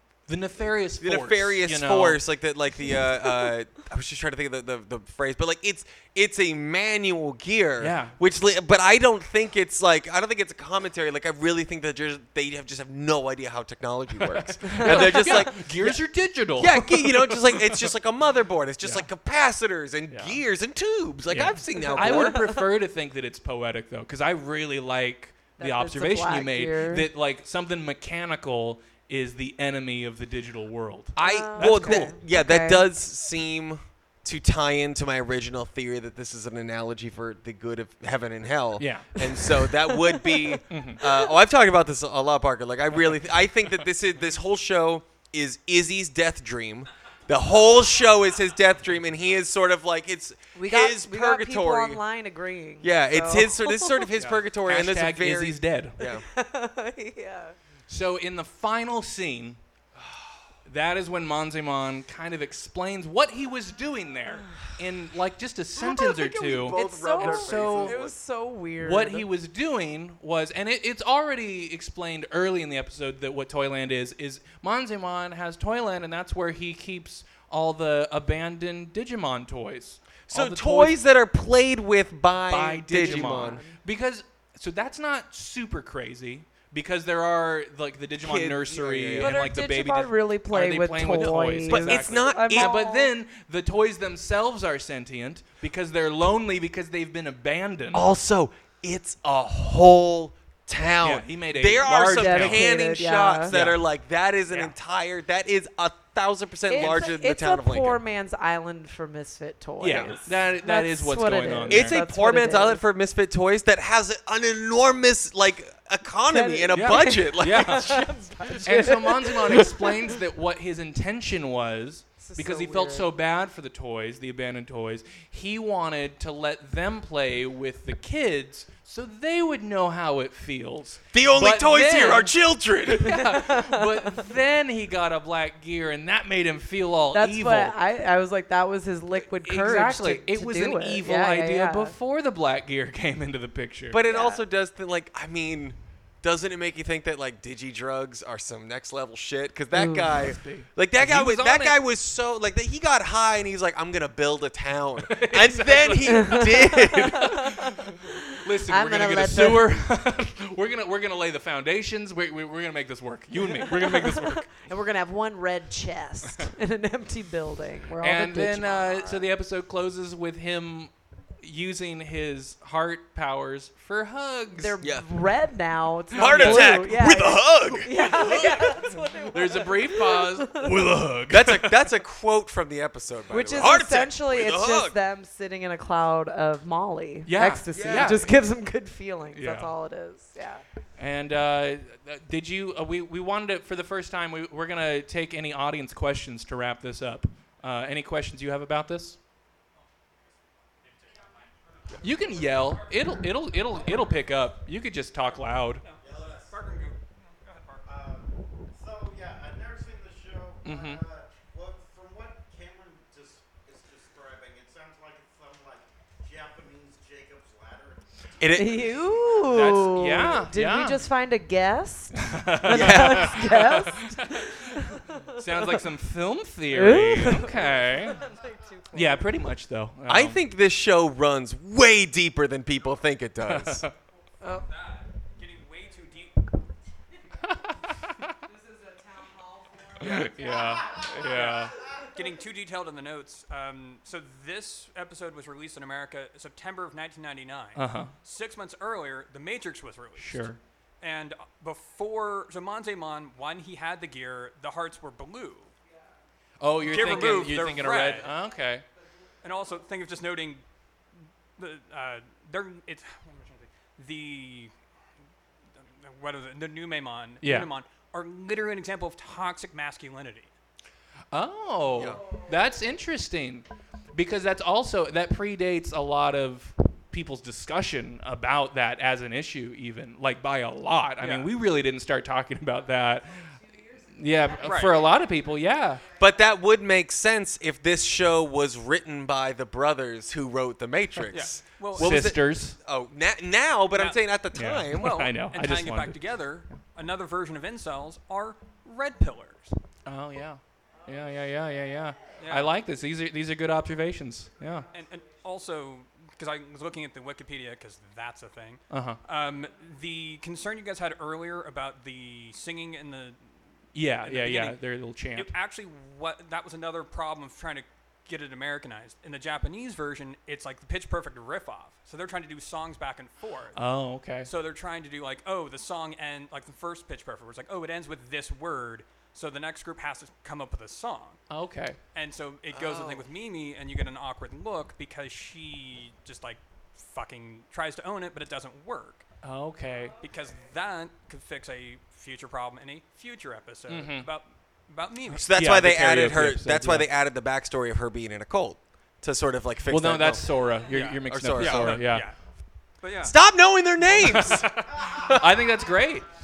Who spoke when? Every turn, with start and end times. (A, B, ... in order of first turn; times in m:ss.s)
0:00.3-0:02.2 A
0:01.0-0:16.0 B
0:07.8-0:08.2 A
0:14.3-0:17.9 A
0:14.6-0:15.5 C
0:16.6-0:22.4 B
0:18.8-0:19.1 A
0:20.1-0:20.4 A
0:21.3-0:32.1 A
0:21.8-0:22.6 C
0:25.6-0:27.1 C
0:31.1-0:52.0 B
0:31.2-0:32.8 C
0:38.8-0:39.2 A
0:39.3-0:40.6 C
0:40.7-0:41.0 A
0:50.5-0:54.1 C
0:52.8-0:56.2 B
0:54.2-0:56.0 A
0:56.0-0:57.6 C
0:57.9-0:59.6 A
1:00.0-1:00.4 B
1:00.6-1:08.0 A
1:05.8-1:08.1 B
1:06.6-1:09.3 C
1:08.8-1:20.9 A
1:20.3-1:23.6 B
1:22.5-1:38.1 A
1:23.0-1:23.8 C
1:28.2-1:29.4 B
1:29.2-1:33.1 C
1:31.7-1:32.7 B
1:37.9-1:48.0 B
1:41.0-1:42.7 A
1:42.1-1:43.5 C
1:43.5-1:43.8 A
1:46.7-1:52.8 C
1:49.8-1:52.0 A
1:49.8-1:50.2 B
1:51.7-1:58.9 B
1:56.3-1:59.9 C
1:56.7-2:12.3 A
2:02.2-2:03.1 C
2:11.1-2:13.3 B
2:12.8-2:17.7 A
2:13.0-2:14.2 C
2:17.1-2:21.9 C
2:19.4-2:24.0 A
2:23.9-2:37.4 B
2:24.0-2:24.4 C
2:29.7-2:30.3 C
2:30.0-2:31.8 A
2:35.0-2:44.5 A
2:36.2-2:39.7 C
2:43.6-2:49.3 C
2:48.0-2:54.7 A
2:54.5-3:00.7 C
2:56.1-2:58.9 B
2:56.1-2:56.9 A
2:58.1-2:58.7 A
2:59.3-3:01.8 A
3:01.3-3:05.0 B
3:03.3-3:10.6 C
3:07.2-3:08.3 A
3:07.7-3:08.3 B
3:09.3-3:09.7 A
3:11.0-3:19.2 A
3:20.7-3:23.1 D
3:22.0-3:25.8 A
3:25.7-3:28.0 D
3:26.0-3:26.6 E
3:27.8-3:39.4 E
3:30.6-3:31.0 A
3:38.4-3:39.0 B
3:38.5-3:45.8 C
3:39.4-3:41.0 A
3:42.2-3:48.3 A
3:42.6-3:43.7 B
3:46.7-3:49.2 C
3:48.9-3:50.4 A
3:50.1-3:53.8 B
3:53.4-3:53.9 A
3:54.4-3:54.7 C
3:54.5-3:56.4 D
3:57.4-3:58.3 A
3:58.8-3:59.5 C
4:00.0-4:00.4 B
4:00.0-4:01.8 A
4:01.2-4:10.5 D
4:07.7-4:08.1 A
4:10.2-4:10.6 A
4:11.0-4:15.7 D
4:16.6-4:18.8 A
4:16.8-4:18.3 D
4:19.4-4:20.6 D
4:21.6-4:24.7 D
4:25.8-4:30.5 D
4:27.4-4:27.7 A
4:31.3-4:43.5 A
4:31.9-4:32.2 B
4:41.2-4:41.5 D
4:44.1-4:46.0 A
4:44.6-4:45.1 D
4:46.1-4:55.2 B
4:51.3-4:52.2 D
4:51.9-4:52.8 A
4:53.9-4:54.2 D
4:54.5-4:56.3 A
4:54.9-4:59.8 D
5:00.0-5:04.9 A
5:02.4-5:02.7 D
5:04.9-5:13.5 D
5:08.9-5:09.2 A
5:13.9-5:15.5 A
5:14.2-5:14.8 D
5:15.3-5:23.8 D
5:23.7-5:24.5 A
5:24.4-5:31.4 D
5:31.5-5:32.0 A
5:32.1-5:39.2 D
5:32.7-5:33.2 B
5:39.4-5:40.2 A
5:40.2-5:45.5 D
5:43.9-5:44.3 A
5:45.4-5:50.6 B
5:45.5-5:47.1 A
5:49.9-5:52.3 A
5:50.9-5:52.3 D
5:51.2-5:52.1 B
5:53.0-5:53.4 D
5:53.2-5:54.7 B
5:54.2-5:56.3 A